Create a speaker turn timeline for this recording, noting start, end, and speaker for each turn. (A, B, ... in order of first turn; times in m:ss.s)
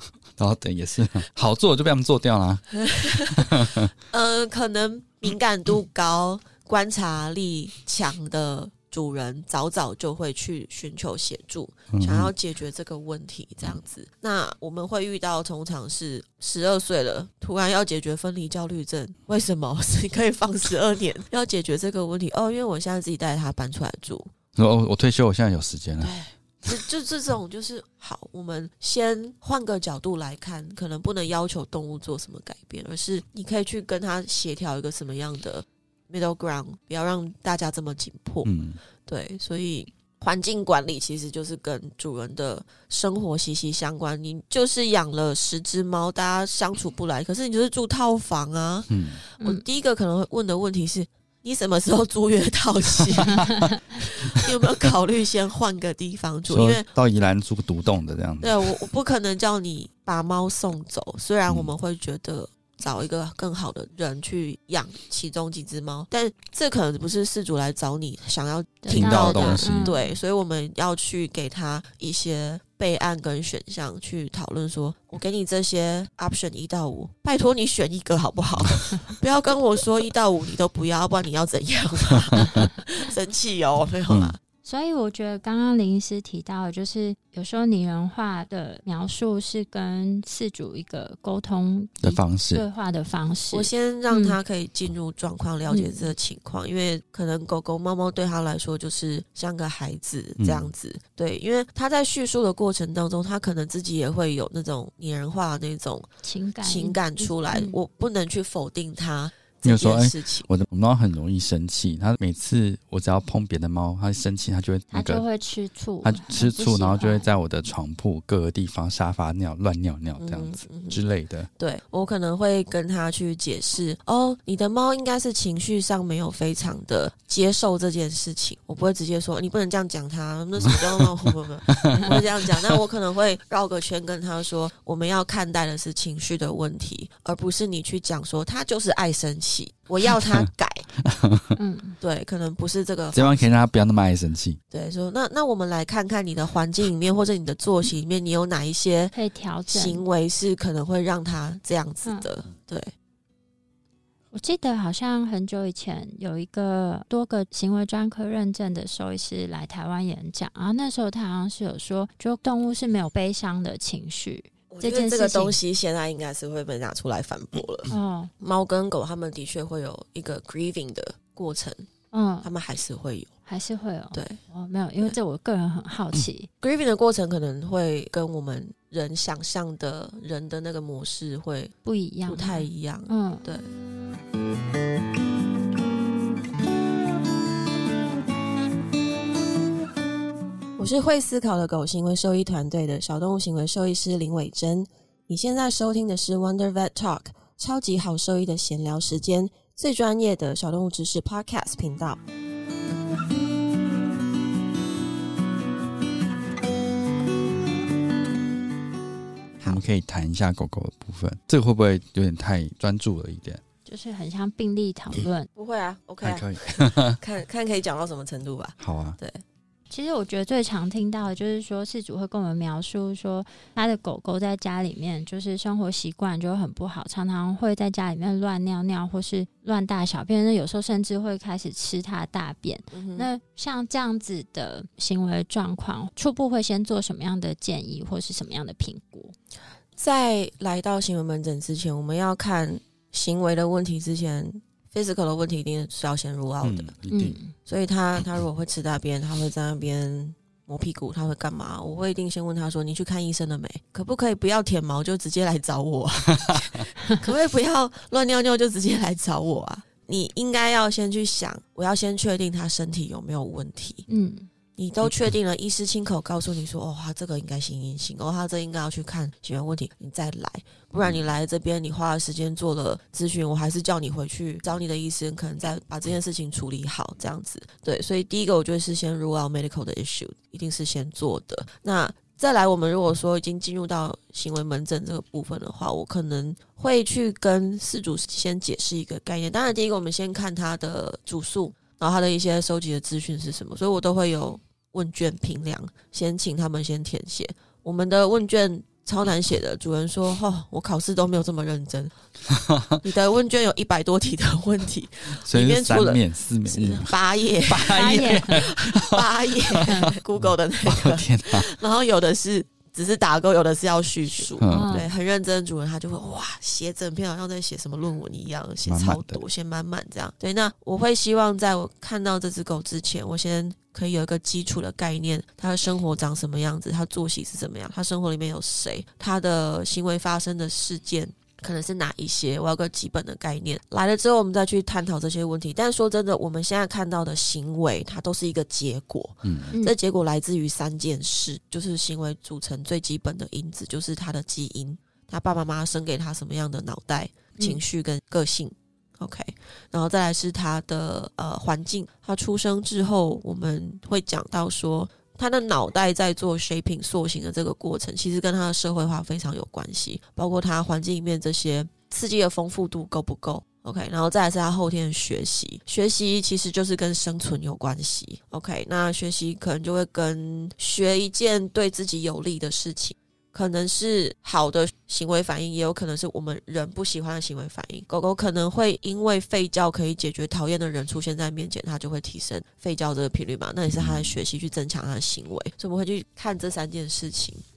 0:00.4-0:02.6 A
0:02.7-0:24.3 B
0:03.3-0:03.9 A
0:11.9-0:12.3 A
0:24.6-0:26.1 A
0:26.0-0:38.5 B
0:38.4-0:38.8 A
0:39.0-0:56.9 B
0:48.9-0:49.2 A
0:53.3-0:53.8 C
0:56.5-0:58.8 A
0:58.4-1:24.4 B
1:08.8-1:10.1 C
1:08.9-1:09.9 A
1:18.6-1:18.8 A
1:22.3-1:22.7 A
1:24.1-1:24.3 A
1:24.6-1:34.4 C
1:32.0-1:32.6 A
1:33.5-1:46.1 B
1:35.7-1:36.1 C
1:40.4-1:40.7 A
1:46.2-1:47.8 C
1:46.6-1:50.5 B
1:49.6-1:55.2 A
1:54.9-1:57.3 C
1:56.0-2:01.5 A
2:00.2-2:01.0 B
2:01.6-2:20.9 B
2:10.6-2:11.1 A
2:11.7-2:12.8 A
2:20.2-2:20.5 A
2:21.0-2:21.6 A
2:21.6-2:22.0 C
2:22.0-2:23.5 B
2:23.1-2:24.6 A
2:24.7-2:29.1 B
2:29.1-2:30.0 C
2:29.7-2:32.9 B
2:34.3-2:45.6 C
2:44.7-2:51.8 B
2:47.9-2:48.3 C
2:52.1-2:52.5 C
2:52.4-2:53.3 B
2:53.4-2:56.5 C
2:54.1-2:54.4 B
2:56.6-3:01.7 B
3:01.8-3:03.4 C
3:02.2-3:03.7 B
3:10.8-3:22.2 B
3:29.6-3:33.6 A
3:33.8-3:35.5 C
3:35.6-3:39.4 B
3:36.2-3:37.2 A
3:38.8-3:39.2 A
3:39.9-3:59.3 C
3:52.9-3:53.3 B
4:00.0-4:07.0 B
4:06.6-4:07.4 A
4:07.1-4:07.5 C
4:07.6-4:24.1 B
4:16.5-4:16.8 A
4:24.1-4:24.5 C
4:24.8-5:02.1 B
5:02.5-5:03.0 A
5:03.0-6:27.6 B
5:05.4-5:07.1 A
5:07.7-5:11.7 A
5:07.9-5:08.6 C
5:09.8-5:10.1 C
5:14.4-5:15.1 C
5:14.6-5:15.0 A
5:18.9-5:19.4 A
5:39.4-5:39.7 A
6:24.0-6:24.4 A